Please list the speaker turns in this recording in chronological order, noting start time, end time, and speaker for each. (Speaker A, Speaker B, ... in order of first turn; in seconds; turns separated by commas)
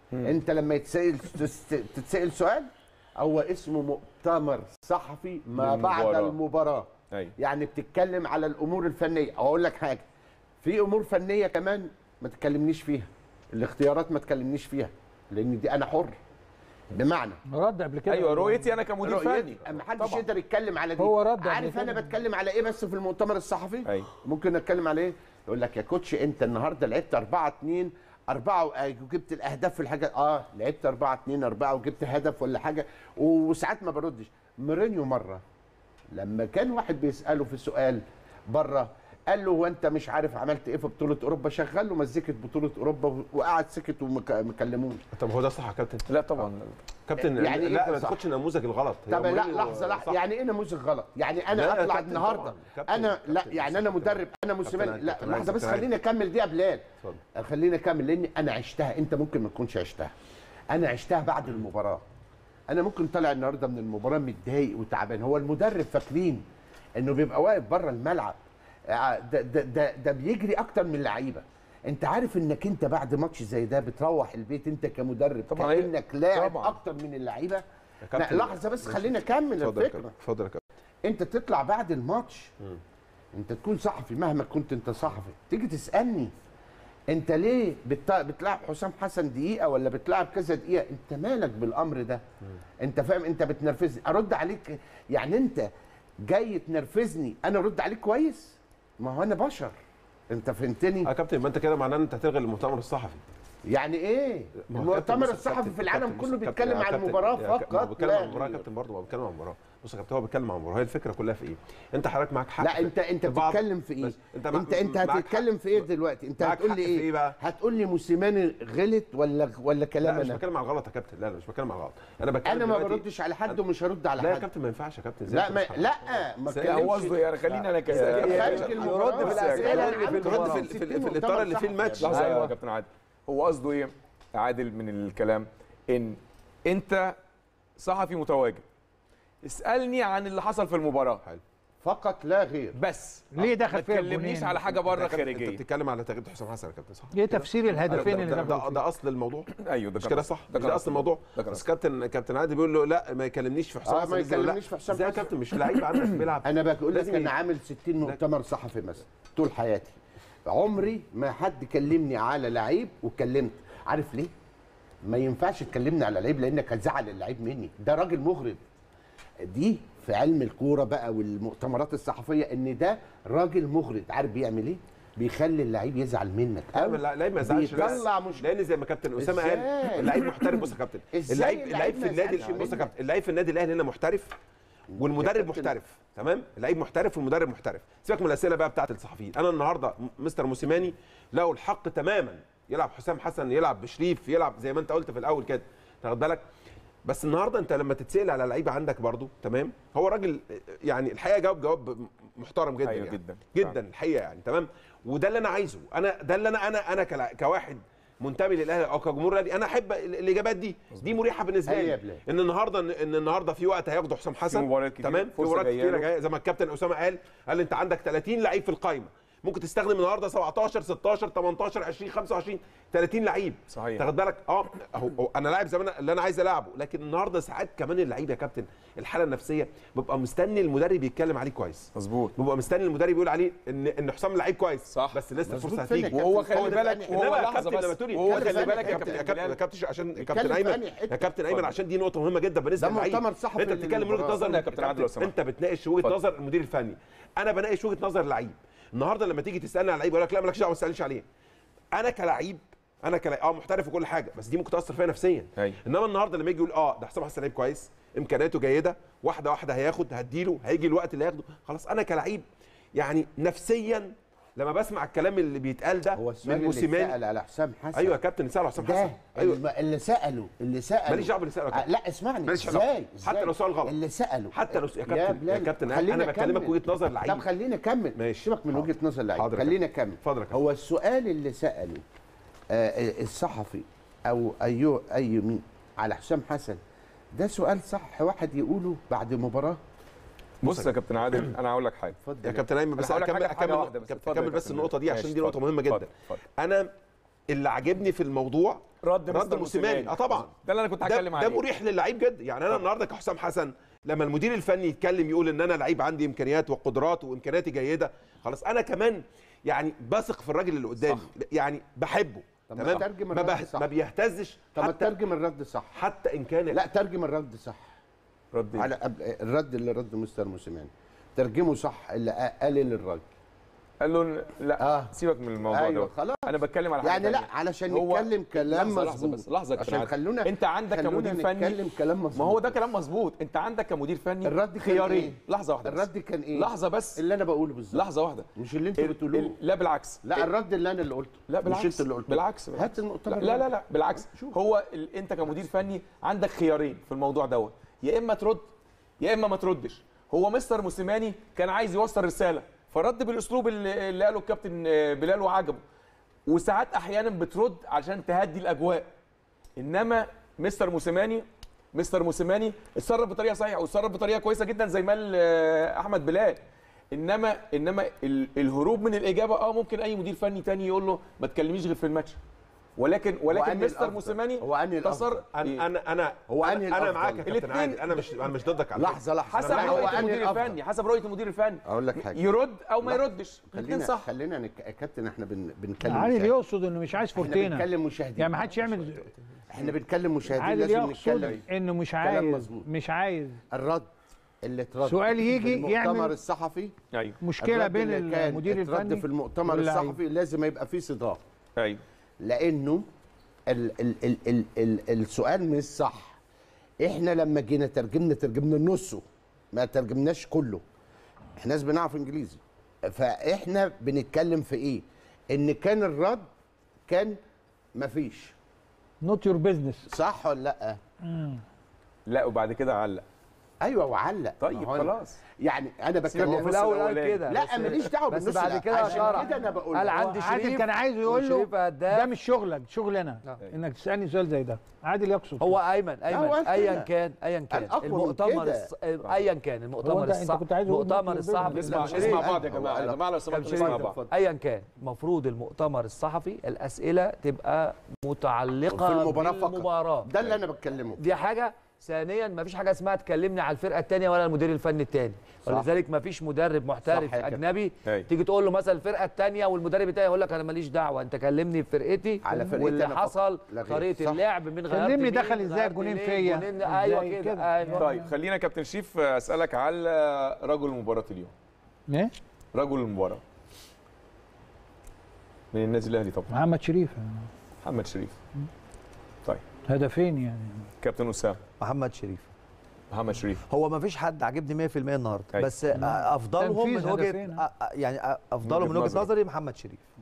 Speaker A: 0.2-10.0, Speaker B: 5.6-6.4, Speaker A: 10.6-16.2, Speaker A: 16.9-17.4, Speaker C: 17.5-18.8, Speaker B: 18.1-20.2, Speaker A: 19.0-35.4, Speaker C: 21.0-22.1, Speaker A: 36.1-45.0, Speaker D: 45.2-46.5, Speaker B: 46.1-46.8, Speaker D: 47.1-50.2, Speaker A: 47.2-48.2, Speaker A: 49.1-60.1, Speaker D: 51.5-55.9, Speaker A: 60.7-62.0, Speaker A: 62.7-66.4, Speaker A: 67.0-68.4, Speaker A: 68.9-77.6, Speaker B: 75.5-76.8, Speaker D: 78.1-80.6, Speaker A: 78.2-80.1, Speaker A: 81.1-82.5, Speaker A: 83.3-86.3, Speaker A: 87.1-92.2, Speaker A: 92.8-95.7, Speaker A: 96.3-99.7, Speaker A: 100.3-101.1, Speaker D: 101.1-103.2, Speaker A: 103.7-108.7, Speaker D: 104.6-115.5, Speaker A: 112.6-120.4, Speaker D: 116.4-117.4, Speaker D: 120.0-123.6, Speaker A: 122.5-124.5, Speaker D: 124.2-126.0, Speaker A: 125.3-132.5, Speaker D: 126.5-127.1, Speaker B: 126.7-130.0, Speaker D: 127.9-132.4, Speaker E: 128.1-130.7, Speaker B: 132.0-137.2, Speaker B: 137.8-138.6, Speaker B: 139.4-141.2, Speaker A: 141.8-142.8, Speaker B: 142.8-145.6, Speaker C: 143.3-144.6, Speaker D: 144.8-149.5, Speaker C: 147.1-148.8, Speaker B: 149.6-151.6, Speaker D: 150.0-157.3, Speaker A: 153.9-155.3, Speaker A: 156.4-164.3, Speaker A: 165.1-168.6, Speaker A: 169.4-178.5, Speaker D: 176.7-184.3, Speaker A: 179.2-182.9, Speaker B: 182.4-182.8, Speaker A: 184.9-185.8, Speaker D: 185.0-196.4, Speaker D: 197.1-251.2, Speaker B: 202.8-203.8, Speaker A: 211.7-212.2, Speaker B: 214.5-216.1, Speaker B: 223.7-224.0, Speaker B: 232.0-232.3, Speaker B: 234.9-235.2, Speaker A: 235.5-237.6, Speaker B: 236.1-239.6, Speaker A: 238.2-239.3, Speaker A: 240.3-241.3, Speaker A: 242.8-244.4, Speaker B: 244.4-245.3, Speaker D: 251.9-262.4, Speaker D: 263.0-267.2, Speaker A: 266.2-268.2, Speaker D: 267.9-269.6, Speaker A: 268.8-282.0, Speaker D: 271.1-271.9, Speaker D: 272.4-273.9, Speaker D: 274.5-277.5, Speaker D: 278.2-280.6, Speaker A: 282.7-286.8, Speaker A: 287.4-289.8, Speaker B: 290.6-292.2, Speaker D: 290.7-290.9, Speaker A: 292.2-292.7, Speaker D: 292.4-296.9, Speaker B: 293.0-296.4, Speaker D: 297.5-315.2, Speaker B: 299.0-301.6, Speaker B: 311.0-311.3, Speaker A: 312.7-313.9, Speaker A: 314.7-315.9, Speaker D: 316.0-316.8, Speaker A: 316.7-317.9, Speaker B: 318.5-318.9, Speaker A: 318.8-323.2, Speaker B: 324.0-331.8, Speaker A: 324.8-325.1, Speaker A: 325.6-326.5, Speaker A: 327.0-332.8, Speaker B: 332.4-337.2, Speaker A: 334.4-338.0, Speaker B: 337.9-340.5, Speaker A: 338.6-339.6, Speaker A: 340.2-343.7, Speaker B: 341.5-348.6, Speaker A: 344.3-344.5, Speaker B: 349.2-355.8, Speaker B: 356.5-359.1, Speaker B: 359.8-366.6, Speaker B: 367.1-372.4, Speaker B: 373.0-375.8, Speaker A: 373.5-375.4, Speaker D: 375.6-380.6, Speaker A: 376.5-377.5, Speaker B: 377.5-378.4, Speaker A: 379.0-380.8, Speaker B: 379.5-384.2, Speaker A: 381.9-382.4, Speaker A: 383.0-386.5, Speaker C: 386.1-387.9, Speaker A: 387.4-389.2, Speaker C: 388.4-389.2, Speaker A: 389.7-391.6, Speaker C: 390.6-393.6, Speaker A: 392.2-392.9, Speaker A: 393.7-394.1, Speaker A: 394.6-396.9, Speaker C: 395.1-396.3, Speaker B: 397.1-397.4, Speaker C: 397.4-400.2, Speaker A: 397.6-401.4, Speaker A: 402.4-403.1, Speaker A: 403.7-406.4, Speaker A: 407.0-410.8, Speaker A: 411.6-416.5, Speaker A: 417.1-417.4, Speaker A: 418.0-418.5, Speaker C: 419.2-420.1, Speaker A: 420.1-421.0, Speaker C: 421.2-421.6, Speaker B: 422.3-423.2, Speaker A: 423.8-430.3, Speaker B: 424.6-425.4, Speaker B: 426.3-428.1, Speaker E: 426.4-432.3, Speaker C: 429.0-429.6, Speaker C: 430.1-435.8, Speaker E: 435.6-442.6, Speaker A: 436.3-437.1, Speaker A: 437.7-438.9, Speaker C: 440.0-442.3, Speaker B: 441.7-444.2, Speaker A: 441.9-444.3, Speaker E: 443.5-450.3, Speaker A: 448.9-451.3, Speaker E: 451.2-468.1, Speaker A: 457.1-457.6, Speaker A: 462.4-464.4, Speaker C: 464.9-468.3, Speaker B: 468.0-471.5, Speaker C: 472.1-472.3, Speaker B: 472.7-473.4, Speaker B: 475.7-476.5, Speaker C: 476.5-477.5, Speaker B: 477.8-478.4, Speaker C: 479.9-480.9, Speaker B: 481.0-481.6, Speaker E: 481.8-482.5, Speaker B: 483.1-483.6, Speaker E: 483.7-490.0, Speaker C: 486.1-487.6, Speaker B: 488.6-489.3